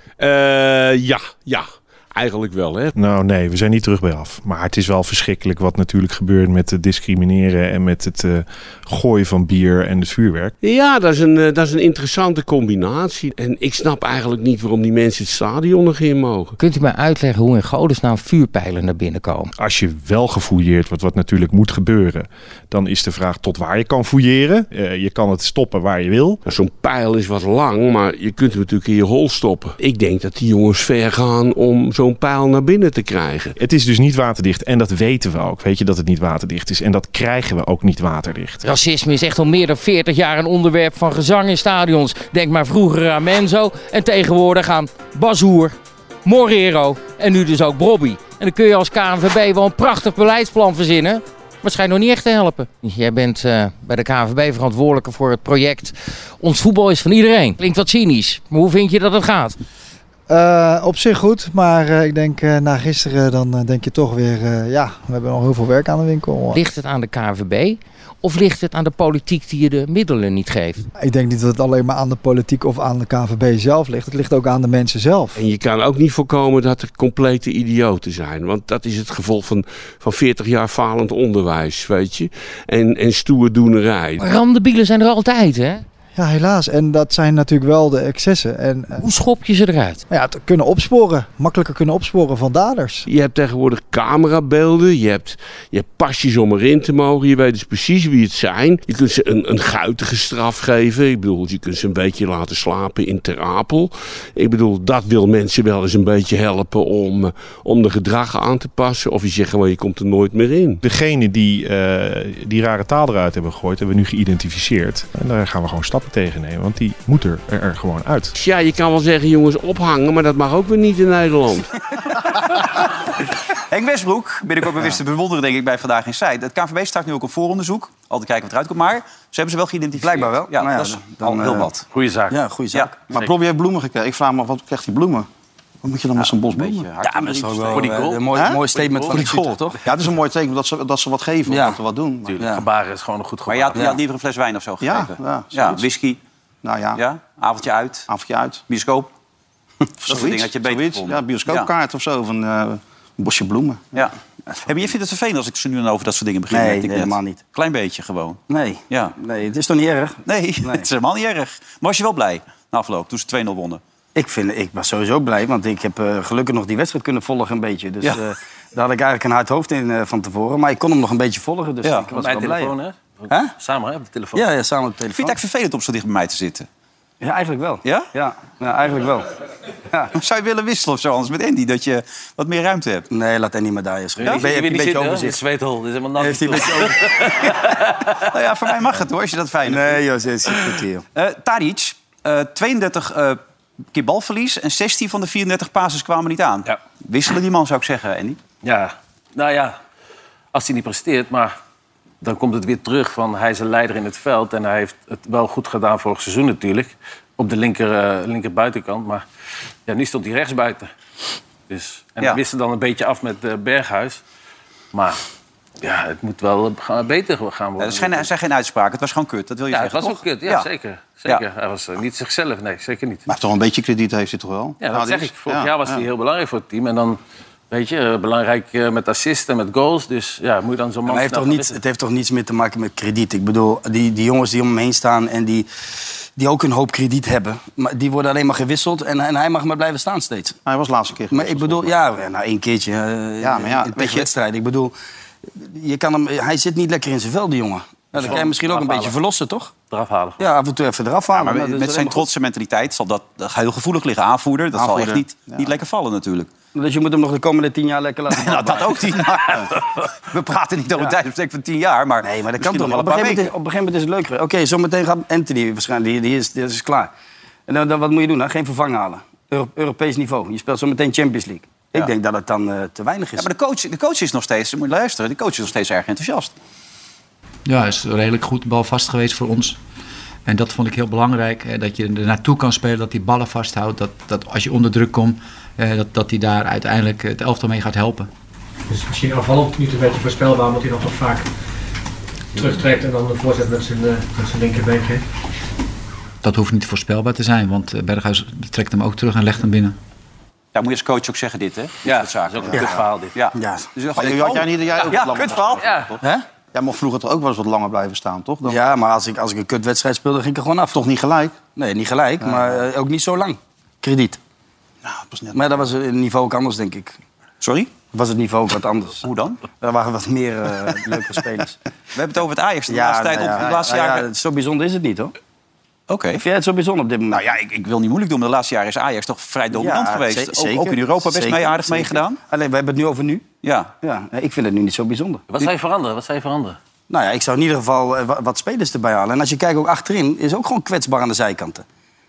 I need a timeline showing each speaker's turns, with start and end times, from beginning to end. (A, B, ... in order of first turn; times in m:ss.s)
0:00.2-0:02.9 A
0:03.0-0:10.5 B
0:10.6-0:16.6 A
0:16.6-0:19.5 C
0:19.6-0:26.4 B
0:26.5-0:33.6 A
0:33.6-0:38.6 B
0:38.6-0:59.6 C
1:00.3-1:06.6 D
1:06.5-1:10.8 C
1:11.0-1:15.4 D
1:15.4-1:24.2 A
1:24.2-1:25.8 C
1:26.2-1:29.0 D
1:29.0-1:30.0 C
1:30.1-1:33.1 D
1:33.1-1:50.8 A
1:50.8-1:58.4 B
1:58.4-2:01.7 A
2:03.7-2:11.9 E
2:10.0-2:11.7 F
2:11.9-2:12.4 G
2:12.3-2:13.0 F
2:12.7-2:13.2 E
2:13.1-2:15.3 H
2:15.8-2:16.9 H
2:16.2-2:17.9 E
2:17.0-2:19.8 F
2:17.7-2:18.2 G
2:18.7-2:19.3 G
2:19.8-2:22.4 H
2:21.5-2:21.8 F
2:22.3-2:23.9 G
2:22.4-2:22.6 F
2:23.5-2:26.2 E
2:24.8-2:25.9 H
2:26.6-2:27.0 H
2:27.0-2:28.1 E
2:28.1-2:28.6 H
2:28.7-2:29.1 E
2:30.0-2:33.9 H
2:30.1-2:31.7 E
2:34.5-2:34.9 F
2:34.7-2:39.2 E
2:36.5-2:37.4 F
2:38.5-2:40.9 F
2:40.2-2:43.8 E
2:44.2-2:52.7 F
2:52.1-2:54.4 G
2:54.3-2:55.4 F
2:55.1-2:56.7 E
2:57.2-2:59.3 F
2:57.8-2:58.1 E
3:00.2-3:03.1 E
3:03.1-3:05.4 F
3:04.2-3:08.1 G
3:06.2-3:07.6 F
3:08.3-3:10.0 E
3:09.6-3:11.0 F
3:11.2-3:13.4 E
3:13.9-3:18.4 E
3:18.6-3:19.8 G
3:20.5-3:21.6 G
3:22.2-3:29.2 G
3:29.9-3:30.9 G
3:31.7-3:34.2 G
3:34.9-3:35.2 G
3:35.8-3:38.3 G
3:37.8-3:40.7 E
3:39.7-3:43.2 G
3:43.3-3:46.0 H
3:44.8-3:47.2 G
3:47.7-3:51.8 G
3:51.1-3:55.7 F
3:56.4-4:00.6 F
4:00.7-4:02.0 H
4:01.3-4:04.9 F
4:03.4-4:04.3 H
4:05.6-4:09.7 F
4:08.2-4:09.2 G
4:09.9-4:10.5 G
4:10.4-4:12.2 F
4:11.3-4:16.5 E
4:14.7-4:15.7 H
4:16.8-4:19.2 F
4:18.3-4:19.7 E
4:20.3-4:23.5 E
4:22.2-4:27.1 F
4:27.7-4:33.5 F
4:33.4-4:36.5 E
4:37.7-4:39.8 I
4:40.5-4:48.3 I
4:48.9-4:51.5 J
4:52.5-4:55.2 J
4:56.4-5:00.0 I
5:00.7-5:05.9 E
5:02.0-5:03.3 G
5:03.5-5:03.9 F
5:04.2-5:06.1 H
5:05.0-5:06.1 G
5:06.7-5:08.8 H
5:08.7-5:11.1 F
5:10.9-5:11.6 H
5:11.8-5:14.4 F
5:12.4-5:12.8 H
5:15.0-5:15.6 H
5:15.5-5:17.2 F
5:17.6-5:17.9 E
5:18.1-5:19.2 F
5:19.2-5:19.6 E
5:19.8-5:21.8 F
5:22.2-5:24.3 E
5:22.9-5:25.3 F
5:26.1-5:26.4 E
5:26.4-5:27.5 F
5:27.3-5:32.4 E
5:29.7-5:33.5 F
5:33.6-5:33.9 E
5:34.0-5:35.4 F
5:35.5-5:36.8 G
5:37.1-5:41.8 F